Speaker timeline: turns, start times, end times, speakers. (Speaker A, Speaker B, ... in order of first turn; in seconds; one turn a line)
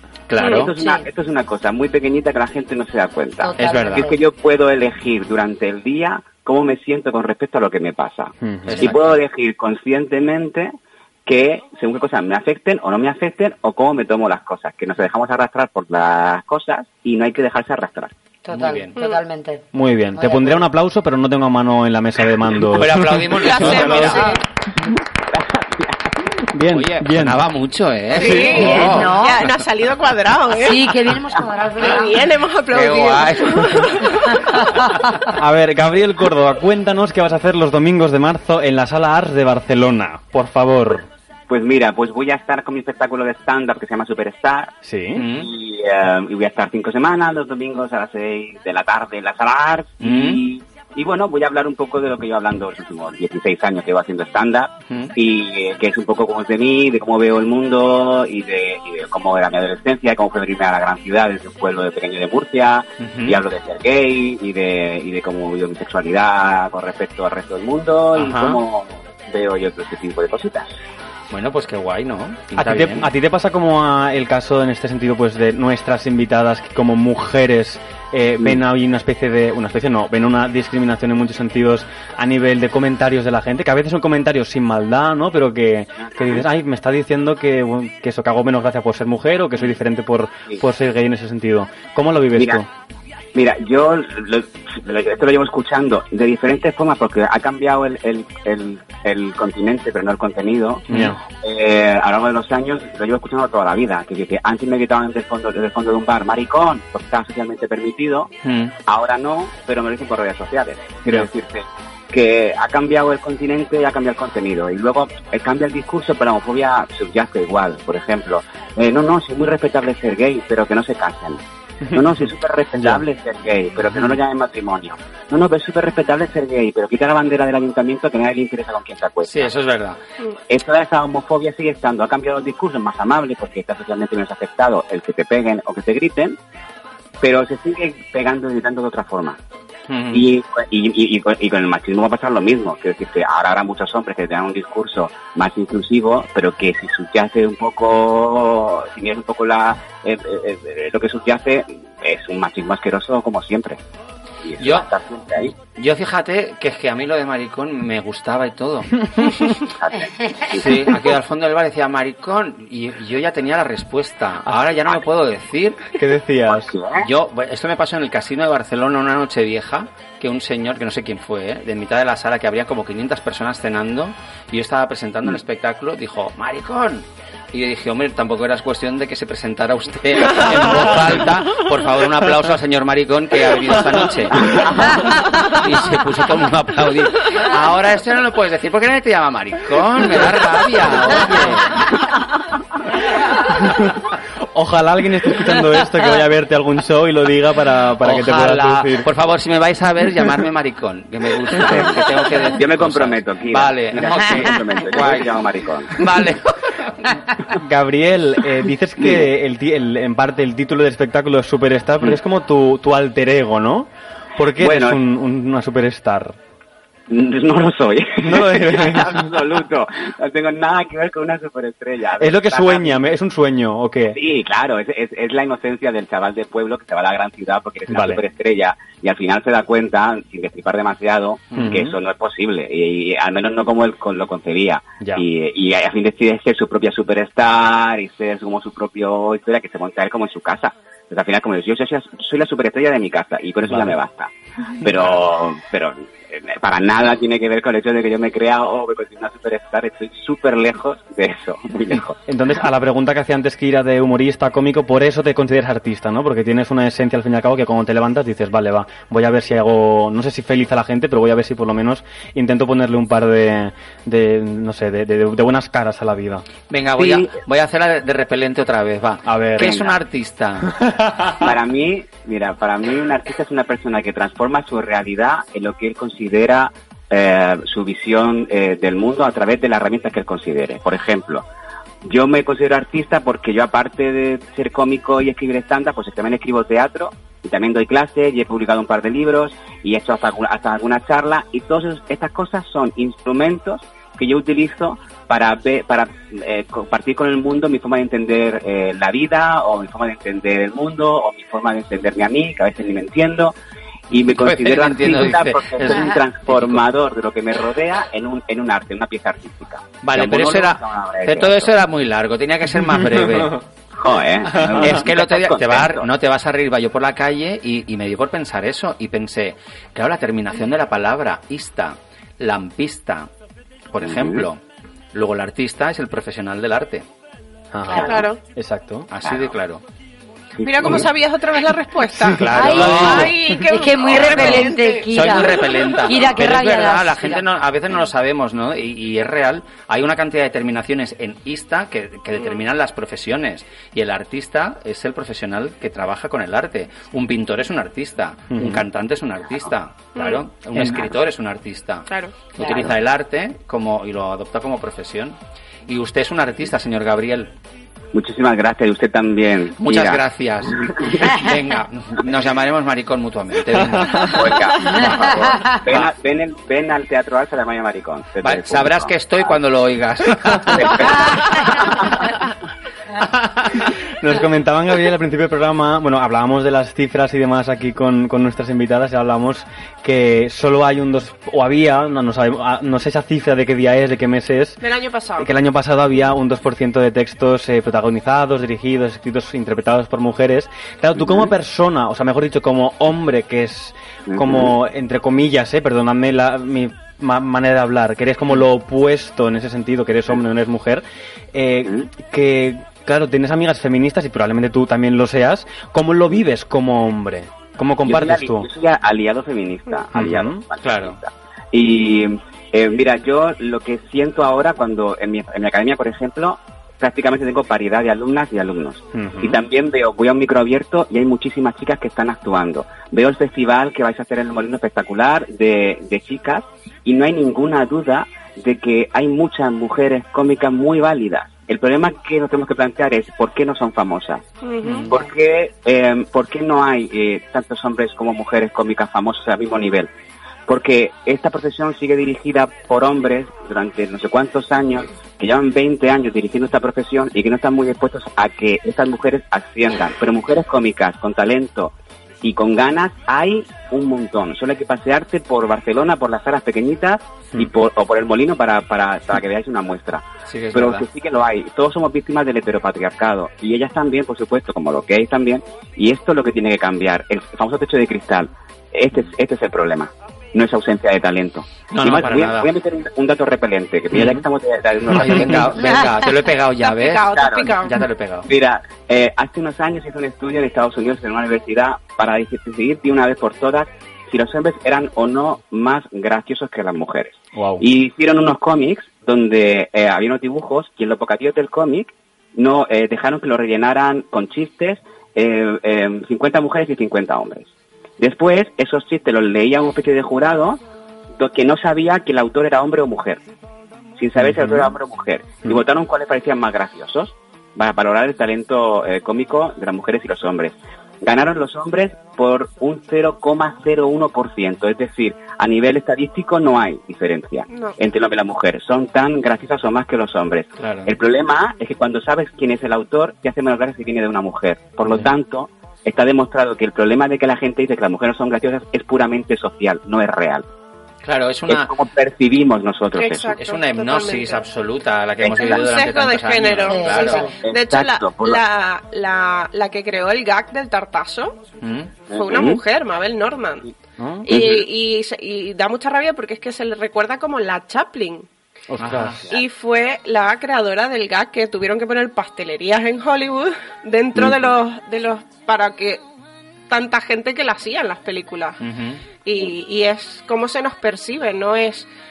Speaker A: 0.3-0.7
Speaker B: 0.4-0.7
Speaker C: 0.4-10.7
Speaker D: 0.8-1.1
Speaker D: 3.4-4.2
Speaker A: 3.5-4.1
Speaker E: 8.4-9.0
Speaker A: 8.7-9.1
Speaker C: 11.2-18.1
Speaker D: 18.4-20.7
Speaker A: 18.5-18.9
Speaker E: 19.7-24.3
Speaker A: 22.6-24.3
Speaker B: 23.3-24.4
Speaker C: 25.3-26.3
Speaker E: 26.5-27.4
Speaker A: 26.7-29.2
Speaker B: 28.1-30.9
Speaker E: 28.1-29.1
Speaker D: 28.4-29.4
Speaker D: 30.5-32.3
Speaker B: 31.8-34.4
Speaker A: 32.7-33.9
Speaker E: 35.3-41.1
Speaker C: 41.5-44.7
Speaker E: 44.8-45.2
Speaker A: 45.1-45.5
Speaker C: 45.3-70.7
Speaker A: 50.0-50.4
Speaker A: 63.0-63.4
Speaker A: 68.1-68.6
Speaker A: 71.3-73.1
Speaker E: 72.5-92.7
Speaker C: 86.0-86.4
Speaker C: 92.4-92.6
Speaker C: 93.3-108.3
Speaker E: 100.9-101.2
Speaker A: 108.4-108.7
Speaker C: 108.8-121.4
Speaker C: 121.9-129.5
Speaker A: 123.8-124.2
Speaker A: 129.2-130.0
Speaker C: 130.5-136.4
Speaker C: 137.2-139.4
Speaker A: 139.9-140.2
Speaker C: 140.1-153.8
Speaker C: 154.4-155.5
Speaker A: 154.6-154.9
Speaker A: 155.4-158.9
Speaker C: 159.6-160.9
Speaker A: 160.5-166.0
Speaker E: 165.9-166.7
Speaker C: 166.5-167.1
Speaker A: 167.0-191.9
Speaker E: 193.5-193.9
Speaker E: 194.5-199.1
Speaker A: 198.0-207.1
Speaker E: 201.6-201.9
Speaker C: 202.5-206.0
Speaker E: 207.5-216.3
Speaker C: 214.6-215.0
Speaker C: 217.1-223.0
Speaker E: 218.2-219.3
Speaker E: 222.2-224.2
Speaker C: 224.1-252.2
Speaker E: 227.9-228.2
Speaker E: 231.5-231.9
Speaker E: 244.8-245.2
Speaker E: 252.3-266.4
Speaker A: 266.7-270.7
Speaker E: 269.2-269.8
Speaker C: 269.6-270.0
Speaker E: 270.6-271.3
Speaker C: 271.4-281.4
Speaker C: 282.0-303.5
Speaker C: 304.1-311.7
Speaker A: 304.3-306.9
Speaker A: 310.0-313.6
Speaker E: 313.2-313.6
Speaker C: 313.9-316.1
Speaker A: 314.5-323.3
Speaker E: 314.6-315.0
Speaker A: 323.9-324.6
Speaker C: 324.0-324.4
Speaker A: 325.1-327.0
Speaker E: 327.7-329.1
Speaker D: 327.9-328.3
Speaker B: 327.9-328.4
Speaker A: 329.1-329.8
Speaker C: 329.2-329.5
Speaker C: 330.6-331.1
Speaker B: 330.6-336.1
Speaker E: 332.2-333.5
Speaker A: 332.4-333.4
Speaker D: 332.5-337.4
Speaker A: 334.0-357.5
Speaker E: 348.5-348.9
Speaker B: 350.1-350.4
Speaker E: 350.7-351.1
Speaker B: 352.1-352.3
Speaker C: 358.1-361.5
Speaker A: 359.8-366.1
Speaker E: 363.7-364.5
Speaker C: 364.1-369.5
Speaker A: 368.4-372.2
Speaker C: 370.7-372.2
Speaker A: 373.2-373.7
Speaker E: 374.2-384.8
Speaker B: 384.8-385.5
Speaker E: 385.4-401.0
Speaker C: 391.1-391.5
Speaker C: 394.3-394.7
Speaker E: 401.5-408.7
Speaker C: 401.8-402.1
Speaker C: 408.0-434.4
Speaker E: 410.1-410.6
Speaker A: 410.8-411.2
Speaker E: 419.1-419.6
Speaker B: 434.6-435.1
Speaker C: 435.1-440.1
Speaker C: 440.7-476.0
Speaker A: 460.4-461.0
Speaker A: 471.9-472.7
Speaker A: 474.1-474.4
Speaker A: 475.1-478.5
Speaker B: 476.8-477.9
Speaker C: 477.3-477.7
Speaker C: 478.5-497.7
Speaker E: 487.5-487.8
Speaker C: 498.2-500.8
Speaker C: 501.4-503.4
Speaker C: 504.2-530.6
Speaker E: 504.4-504.9
Speaker B: 517.7-518.0
Speaker A: 520.8-521.1
Speaker A: 525.1-525.3
Speaker A: 531.2-531.9
Speaker C: 531.7-533.5
Speaker B: 533.1-534.6
Speaker A: 533.5-537.6
Speaker C: 535.4-535.8
Speaker B: 535.5-541.6
Speaker D: 536.9-537.5
Speaker C: 537.6-538.6
Speaker A: 541.8-542.1
Speaker C: 542.3-542.8
Speaker B: 542.3-543.9
Speaker E: 544.2-544.5
Speaker B: 544.4-548.5
Speaker C: 544.5-544.9
Speaker E: 548.9-549.5
Speaker A: 549.0-549.4
Speaker B: 549.5-556.2
Speaker C: 554.4-554.6
Speaker B: 556.9-558.8
Speaker A: 558.8-559.2
Speaker B: 559.4-562.1